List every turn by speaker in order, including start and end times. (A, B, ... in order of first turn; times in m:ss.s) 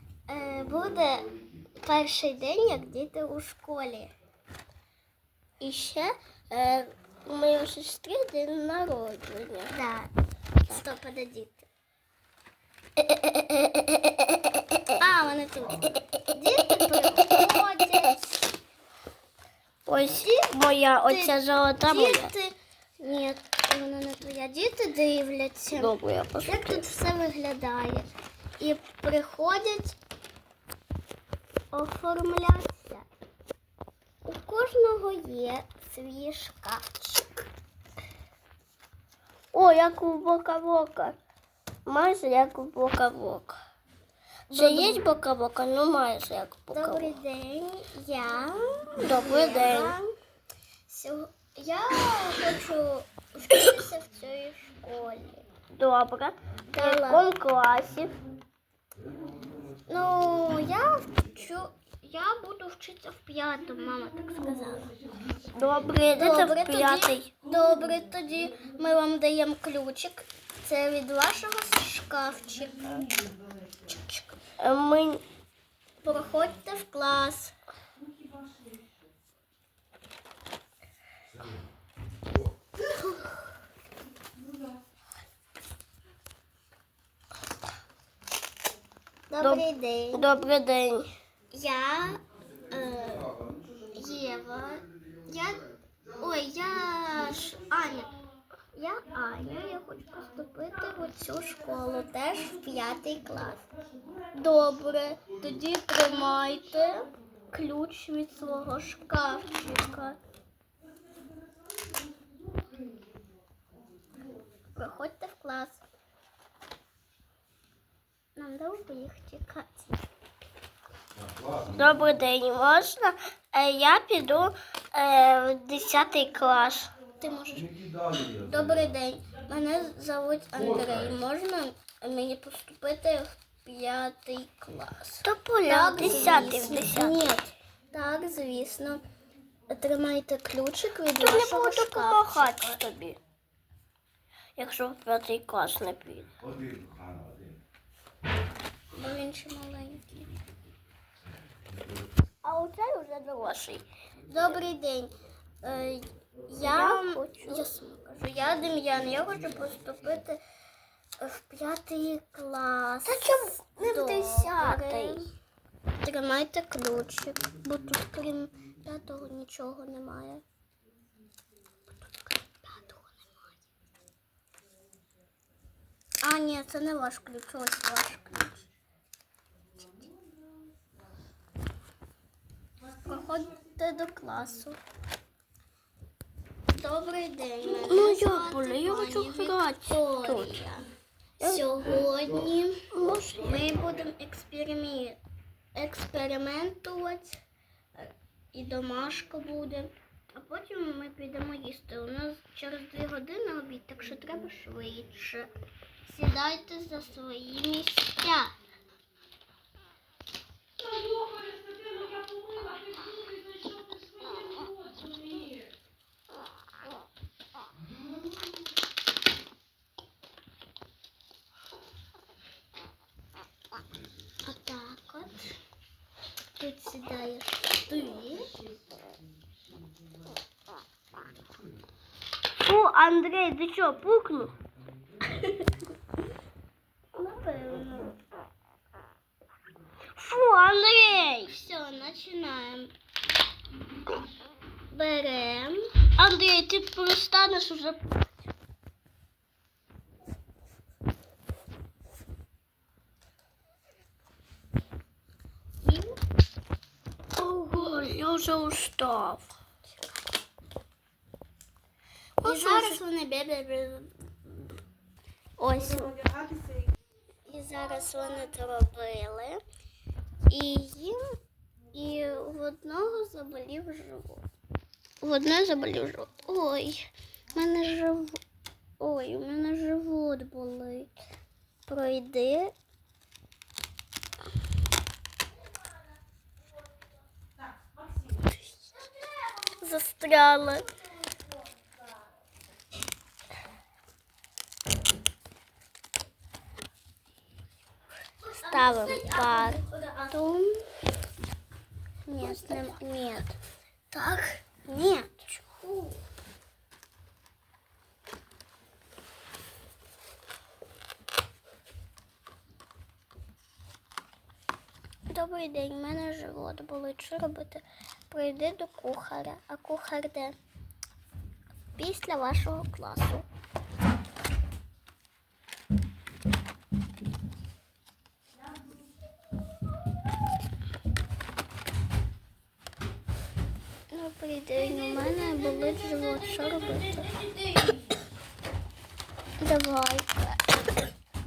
0:00.3-0:04.1 A
0:05.6-0:06.1 A
0:06.5-0:09.7 B
0:09.7-0:10.1 A
0:10.6-0:11.7 A
0:13.0-0:14.4 B
0:15.0-0:18.5 A
0:19.8-0:22.3 B
0:20.1-0:20.5 A
0:21.1-0:25.9 A
0:25.8-0:26.8 B
0:26.4-0:28.1 A
0:28.6-0:30.0 A
0:31.7-0:33.0 A
0:34.2-0:37.3 A
0:39.5-0:41.2 B
0:41.8-0:43.6 B
0:44.5-0:45.0 A
0:44.5-0:47.2 B
0:46.7-0:50.1 A
0:49.0-0:50.0 B
0:50.9-0:55.4 A
0:55.8-0:58.1 B
0:56.7-0:57.2 A
0:59.9-1:04.9 A
1:05.5-1:07.3 B
1:06.2-1:13.2 A
1:13.9-1:14.4 A
1:14.6-1:15.2 B
1:16.0-1:17.5 A
1:29.3-1:30.2 A
1:29.4-1:31.1 B
1:31.5-1:32.2 A
1:32.7-1:33.3 A
1:33.9-1:35.6 A
1:36.2-1:38.1 A
1:38.7-1:43.7 A
1:44.3-1:50.2 A
1:54.8-1:55.8 A
1:58.4-2:00.1 A
2:01.7-2:06.9 B
2:07.2-2:19.0 A
2:15.2-2:17.2 B
2:19.7-2:22.8 A
2:21.2-2:23.2 B
2:24.6-2:26.4 B
2:28.9-2:30.3 A
2:32.4-2:33.8 B
2:34.3-2:40.4 A
2:36.6-2:37.7 B
2:41.2-2:45.3 A
2:43.0-2:45.3 B
2:46.0-2:50.4 A
2:52.4-2:53.4 A
2:56.2-2:58.6 A
3:03.0-3:04.8 A
3:06.8-3:10.8 A
3:07.6-3:10.7 B
3:11.4-3:12.8 A
3:12.9-3:13.6 B
3:13.3-3:15.2 A
3:15.7-3:17.4 A
3:17.9-3:25.5 A
3:26.0-3:28.5 A
3:44.4-3:45.5 A
3:46.6-3:48.5 A
3:52.6-3:54.6 B
3:57.1-3:58.1 A
4:00.2-4:01.5 B
4:01.2-4:02.9 A
4:04.9-4:05.8 A
4:06.2-4:08.1 B
4:15.8-4:16.1 A
4:17.4-4:19.5 B
4:19.9-4:20.2 A
4:22.4-4:23.1 B
4:22.4-4:24.0 A
4:23.6-4:24.0 B
4:25.6-4:26.1 B
4:25.8-4:26.1 A
4:27.5-4:29.6 A
4:30.5-4:31.2 A
4:31.9-4:34.5 A
4:35.2-4:38.4 A
4:39.0-4:41.1 A
4:41.9-4:42.7 A
4:49.8-4:50.7 A
4:50.4-4:50.8 B
4:58.4-5:00.8 A
4:58.7-5:00.3 B
5:02.3-5:03.6 A
5:02.4-5:03.0 B
5:04.1-5:06.2 A
5:15.3-5:20.6 A
5:22.0-5:23.4 A
5:34.1-5:37.3 A
5:34.8-5:38.1 B
5:39.6-5:40.6 A